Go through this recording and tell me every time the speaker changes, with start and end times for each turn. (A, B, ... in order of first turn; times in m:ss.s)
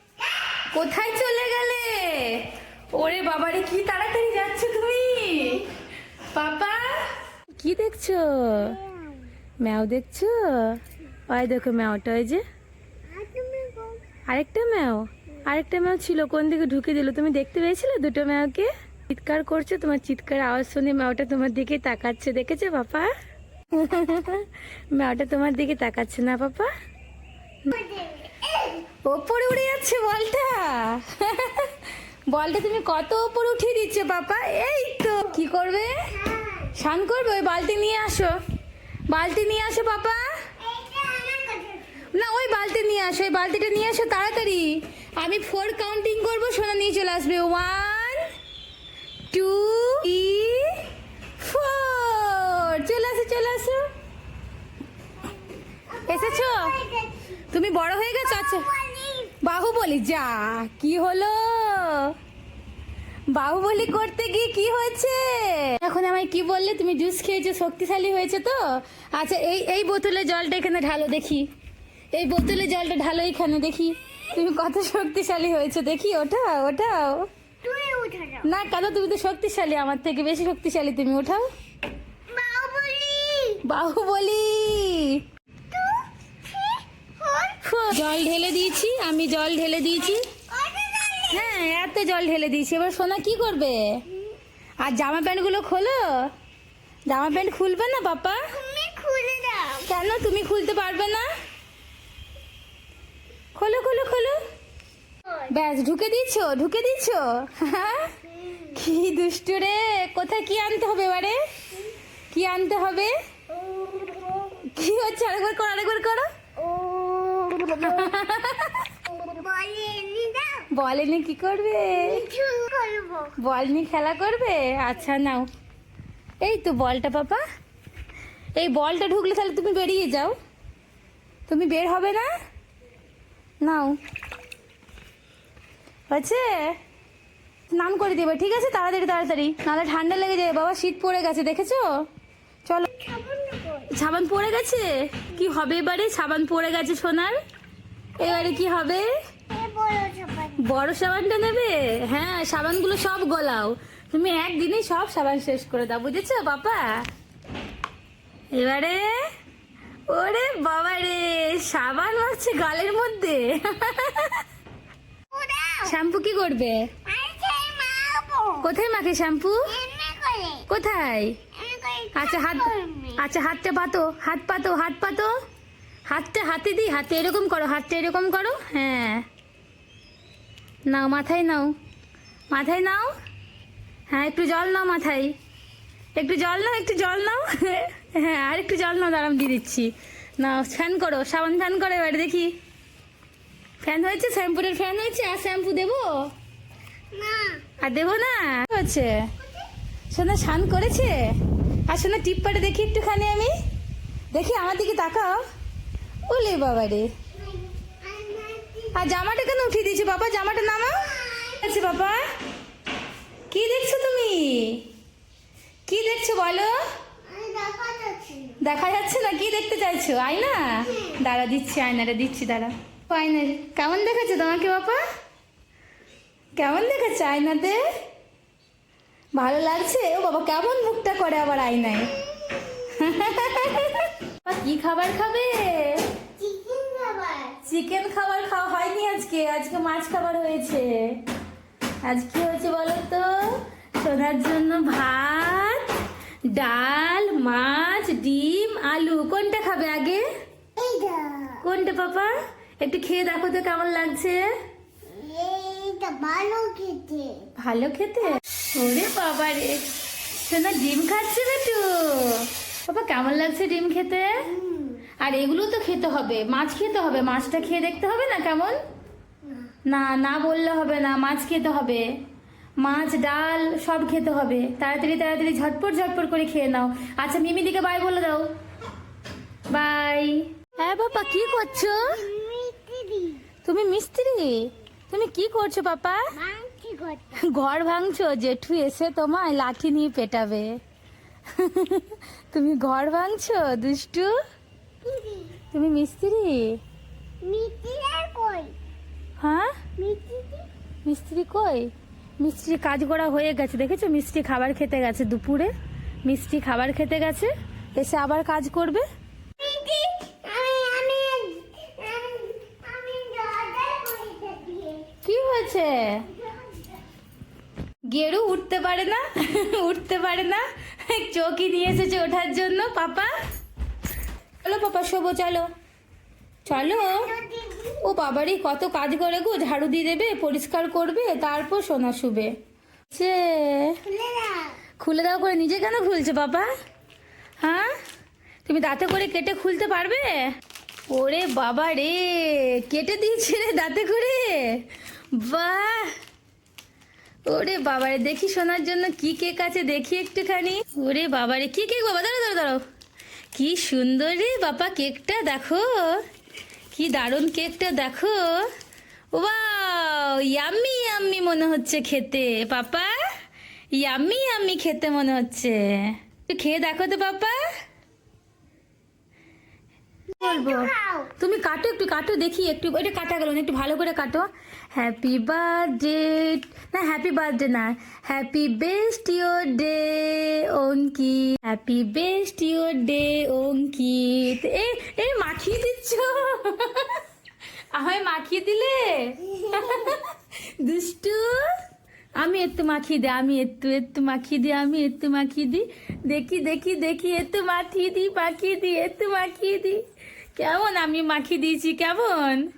0:00.7-0:05.7 A
0:06.3-0:08.8 A
0:08.6-0:09.3 B
0:09.6-0:12.4 A
0:13.1-0:14.1 B
0:14.3-0:23.1 A
0:23.7-0:26.7 A
0:27.7-0:28.8 B
0:29.0-0:36.1 A
0:36.1-0:36.7 B
0:36.8-0:38.4 A
0:39.1-0:40.3 A
0:40.6-0:42.0 B
0:42.1-0:48.2 A
0:49.3-0:53.9 A
0:55.9-0:57.4 B
0:56.1-0:56.8 A
0:57.5-0:58.7 A
0:58.2-0:59.4 B
0:59.4-1:02.2 A
1:03.3-1:11.5 A
1:12.1-1:17.3 A
1:17.6-1:18.5 B
1:18.4-1:21.5 A
1:22.3-1:23.6 B
1:23.6-1:25.2 A
1:25.7-1:27.6 B
1:27.6-1:30.2 A
1:30.3-1:31.8 B
1:31.3-1:34.0 A
1:34.8-1:36.3 A
1:37.1-1:38.5 A
1:38.5-1:39.9 B
1:39.9-1:41.3 A
1:43.6-1:44.4 A
1:45.4-1:51.4 A
1:48.1-1:48.6 B
1:52.3-1:53.1 A
1:53.5-1:54.5 B
1:54.6-1:56.3 A
1:56.6-1:58.2 B
1:57.8-1:58.9 A
1:59.1-2:00.7 B
2:00.7-2:02.2 A
2:02.0-2:03.4 B
2:03.4-2:05.5 A
2:06.4-2:07.4 A
2:08.6-2:10.4 A
2:11.5-2:12.3 A
2:13.6-2:14.0 A
2:16.1-2:16.8 A
2:17.7-2:21.9 A
2:22.9-2:23.9 B
2:23.9-2:27.4 A
2:28.2-2:29.1 A
2:28.2-2:28.7 B
2:29.5-2:30.6 B
2:30.6-2:37.1 A
2:38.5-2:39.3 A
2:40.1-2:44.4 A
2:45.3-2:46.0 B
2:45.8-2:46.9 A
2:47.0-2:48.7 B
2:48.6-2:49.7 A
2:49.7-2:50.7 B
2:50.7-2:51.4 A
2:51.6-2:53.2 B
2:52.1-2:55.3 A
2:56.1-2:59.3 A
3:00.9-3:01.8 A
3:02.5-3:03.1 A
3:04.1-3:05.4 A
3:06.2-3:12.6 A
3:13.8-3:16.3 A
3:17.1-3:17.8 B
3:17.8-3:19.3 A
3:19.4-3:19.7 B
3:20.1-3:21.3 A
3:21.9-3:23.5 A
3:24.3-3:25.4 A
3:26.3-3:27.1 A
3:27.4-3:29.0 B
3:28.9-3:32.2 A
3:30.9-3:31.7 B
3:33.5-3:34.9 A
3:35.9-3:36.8 A
3:37.2-3:38.6 B
3:38.6-3:45.0 A
3:46.6-3:47.8 A
3:49.3-3:52.1 A
3:52.3-3:53.0 B
3:52.8-3:56.1 A
3:56.4-3:57.6 B
3:57.6-4:01.2 A
4:02.0-4:06.0 A
4:06.5-4:10.2 A
4:10.8-4:11.6 B
4:11.6-4:14.5 A
4:15.0-4:17.5 B
4:17.6-4:24.5 A
4:24.4-4:25.0 B
4:25.2-4:28.8 A
4:29.9-4:32.1 A
4:32.8-4:38.5 A
4:39.7-4:42.2 A
4:41.0-4:43.4 B
4:43.6-4:46.3 A
4:46.3-4:47.4 B
4:47.4-4:50.8 A
4:51.5-4:54.4 A
4:55.0-4:55.6 B
4:55.7-4:56.8 A
4:57.4-4:58.7 B
4:59.4-4:59.8 A
5:00.0-5:00.7 B
5:01.0-5:05.7 A
5:06.2-5:09.0 A
5:09.6-5:15.1 B
5:15.2-5:16.3 A
5:16.3-5:16.8 B
5:18.1-5:23.3 A
5:24.6-5:25.7 A
5:26.6-5:27.3 A
5:26.7-5:28.1 B
5:28.0-5:32.5 A
5:33.1-5:34.0 A
5:34.1-5:34.8 B
5:35.0-5:36.7 A
5:37.6-5:37.9 A
5:38.6-5:40.5 A
5:41.1-5:46.2 A
5:47.5-5:52.8 A
5:53.5-5:56.2 A
5:56.9-5:58.7 A
5:59.3-6:03.1 A
6:03.9-6:07.6 A
6:10.4-6:11.3 B
6:10.4-6:27.2 A
6:27.9-6:31.7 A
6:29.8-6:30.1 B
6:32.4-6:40.0 A
6:40.6-6:42.7 A